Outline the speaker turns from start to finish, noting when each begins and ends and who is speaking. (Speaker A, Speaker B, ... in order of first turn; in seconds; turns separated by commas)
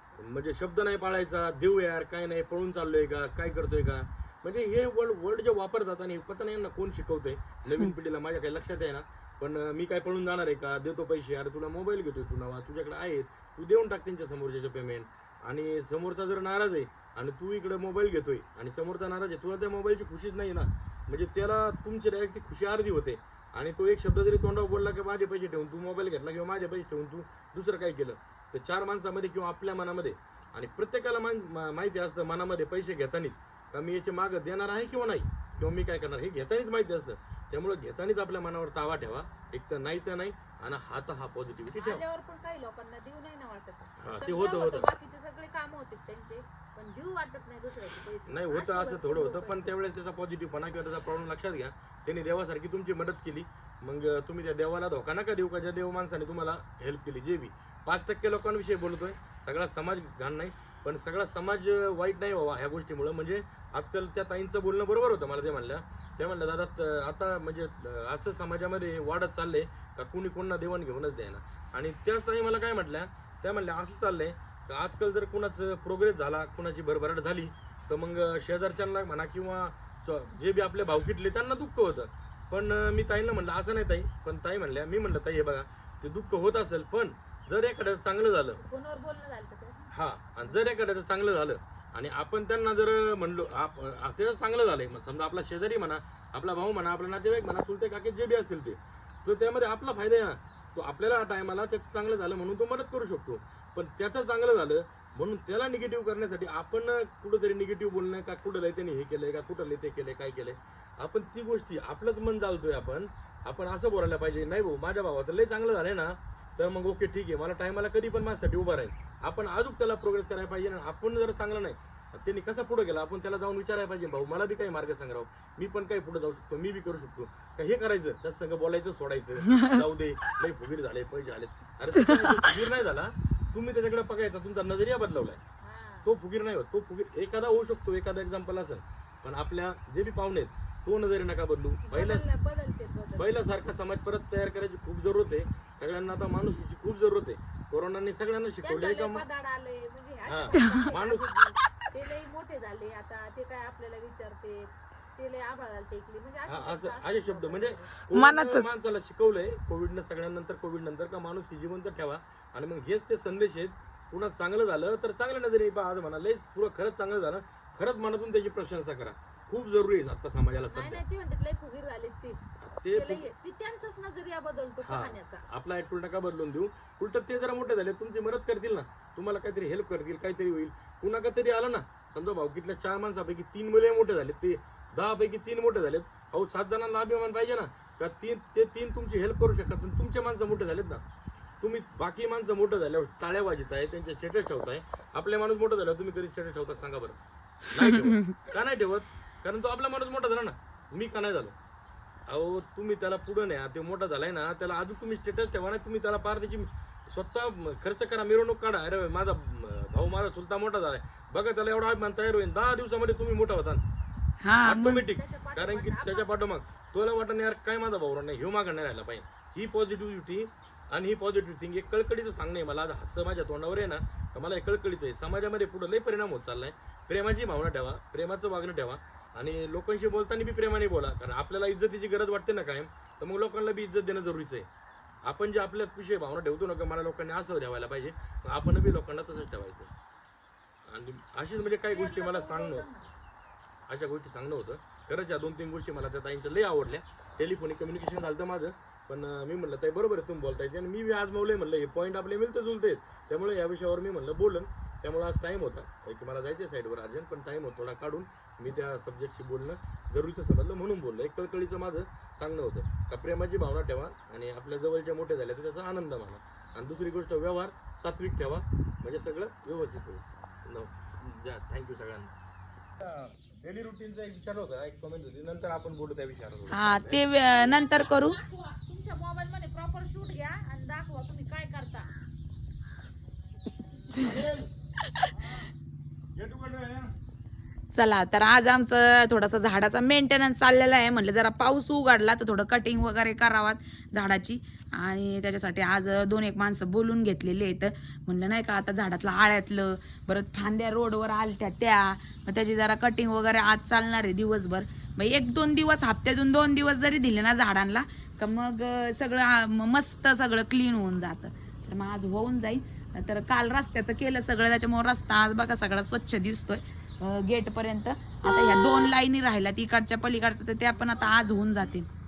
Speaker A: 0.1-42.0, Speaker B: 41.8-49.6, Speaker A: 44.0-44.9, Speaker A: 48.3-88.6, Speaker B: 88.6-89.9, Speaker A: 89.9-135.4, Speaker C: 132.0-132.4, Speaker B: 135.6-136.1, Speaker A: 136.0-142.2, Speaker B: 141.9-143.4, Speaker A: 143.2-149.2, Speaker B: 148.6-157.9, Speaker A: 150.2-151.4, Speaker C: 150.6-150.8, Speaker A: 156.4-171.0, Speaker C: 158.1-158.7, Speaker B: 170.7-172.4, Speaker A: 172.6-173.2, Speaker B: 172.9-175.4, Speaker A: 174.8-191.0, Speaker A: 191.6-201.5, Speaker C: 197.8-198.3, Speaker A: 202.3-213.8, Speaker C: 214.4-215.0, Speaker A: 214.6-234.7, Speaker B: 214.9-216.4, Speaker A: 235.2-239.9, Speaker A: 240.9-242.8, Speaker B: 241.9-243.1, Speaker A: 243.9-272.3, Speaker A: 273.0-277.3, Speaker C: 276.7-278.4, Speaker B: 277.5-282.1, Speaker A: 284.1-284.7, Speaker A: 286.4-287.1, Speaker C: 287.9-322.1